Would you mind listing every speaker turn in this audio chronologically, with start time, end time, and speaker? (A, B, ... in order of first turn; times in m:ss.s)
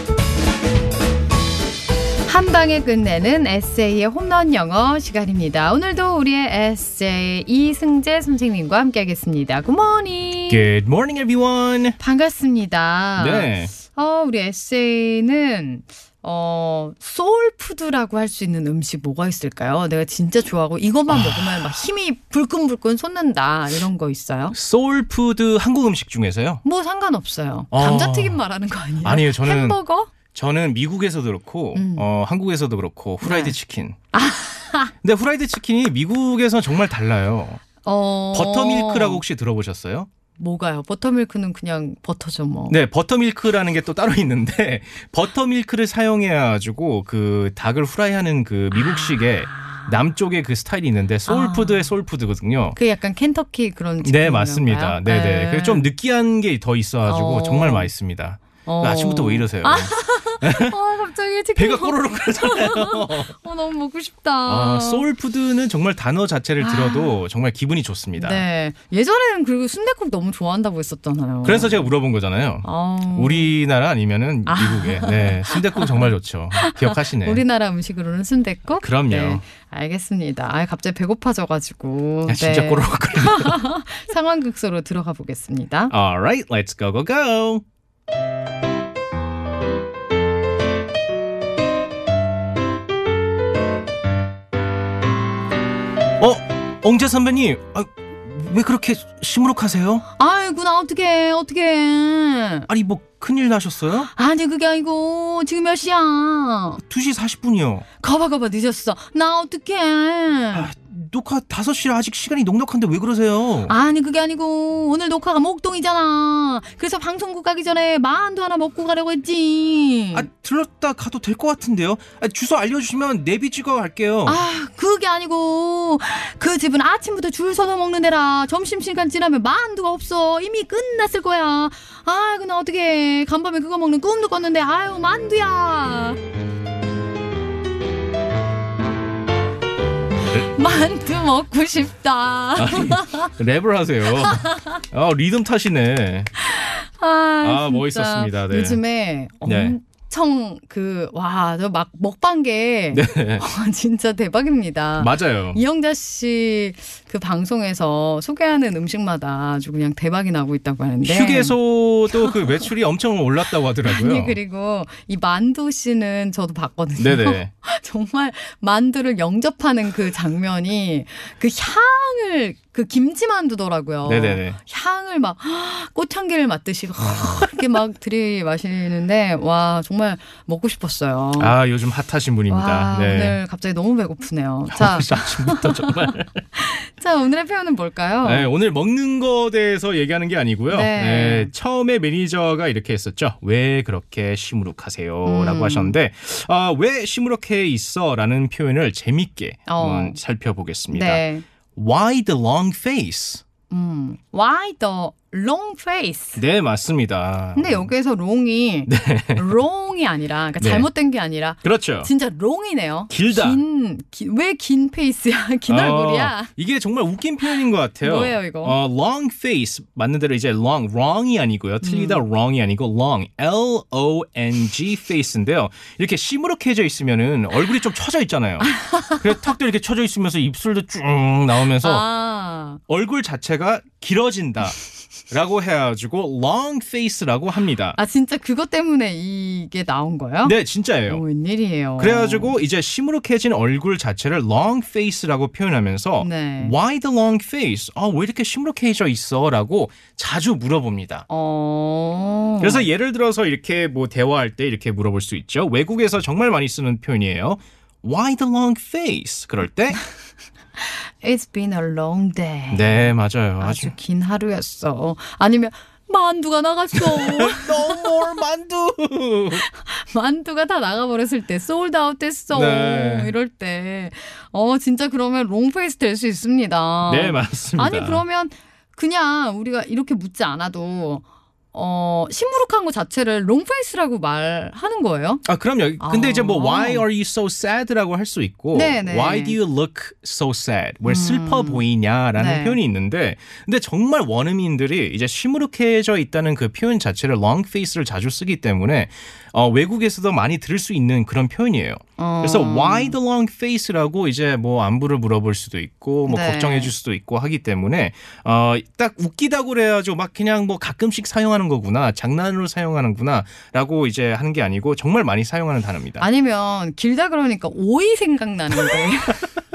0:02.3-0:10.7 A
0:10.5-0:12.0 B
0:12.0-0:24.6 A
0:13.2-0:13.8 B
0:21.1-0:21.8 B
0:24.5-0:26.6 B
0:26.6-0:30.1 A
0:27.7-0:28.4 B
0:29.0-0:29.8 B
0:30.3-0:34.0 B
0:31.7-0:32.1 A
0:33.2-0:33.6 A
0:34.1-0:34.9 A
0:35.0-0:37.6 B
0:37.8-0:39.2 A
0:38.3-0:40.1 B
0:40.4-0:42.8 A
0:42.7-0:52.8 B
0:48.8-0:49.8 A
0:51.3-0:51.9 A
0:52.8-0:55.9 A
0:54.0-1:00.8 B
0:57.1-0:57.9 A
0:58.7-1:05.1 A
1:01.6-1:03.3 B
1:04.5-1:08.4 B
1:06.6-1:07.2 A
1:08.2-1:11.9 A
1:11.4-1:17.4 B
1:12.6-1:13.5 A
1:14.5-1:25.9 A
1:18.8-1:19.4 B
1:22.3-1:23.6 B
1:25.9-1:27.6 B
1:36.2-1:40.0 B
1:40.2-1:42.7 A
1:42.7-1:44.1 B
1:44.1-1:46.8 A
1:46.9-1:47.8 B
1:48.0-1:50.7 A
1:50.5-1:53.7 B
1:53.7-2:00.3 A
2:00.1-2:04.4 B
2:04.3-2:16.2 A
2:20.4-2:23.3 A
2:22.6-2:26.3 B
2:24.2-2:24.8 A
2:26.4-2:41.6 A
2:27.4-2:28.8 B
2:29.4-2:29.8 B
2:32.9-2:33.4 B
2:35.0-2:35.6 B
2:41.0-2:44.4 B
2:42.1-2:42.6 A
2:43.8-3:01.6 A
2:47.0-2:47.5 B
2:54.0-2:54.6 B
2:57.0-2:57.5 B
3:01.4-3:03.4 B
3:02.5-3:08.5 A
3:04.7-3:06.4 B
3:08.2-3:21.2 B
3:10.7-3:11.5 A
3:15.3-3:16.0 A
3:19.7-3:20.2 A
3:20.9-3:21.4 A
3:21.8-3:23.4 B
3:23.7-3:26.4 A
3:26.4-3:27.9 B
3:27.6-3:36.5 A
3:28.9-3:29.5 B
3:30.6-3:30.9 B
3:31.6-3:32.1 B
3:33.1-3:33.6 B
3:35.7-3:52.0 B
3:37.5-3:38.8 A
3:41.8-3:42.2 A
3:48.7-3:49.5 A
3:51.8-3:52.8 A
3:52.9-3:54.8 B
3:55.3-3:58.0 B
3:58.0-4:00.6 A
4:00.4-4:01.2 B
4:01.1-4:02.6 A
4:02.0-4:11.3 B
4:06.2-4:06.8 A
4:11.3-4:12.9 A
4:12.6-4:20.0 B
4:20.8-4:28.4 A
4:22.7-4:23.9 B
4:26.9-4:29.6 B
4:29.5-4:45.4 A
4:32.5-4:33.3 B
4:37.1-4:38.2 B
4:45.5-5:16.3 B
4:46.0-4:47.0 A
4:48.7-4:49.6 A
4:51.1-4:51.8 A
4:52.4-4:52.8 A
5:02.2-5:03.2 A
5:06.3-5:06.9 A
5:16.2-5:19.5 A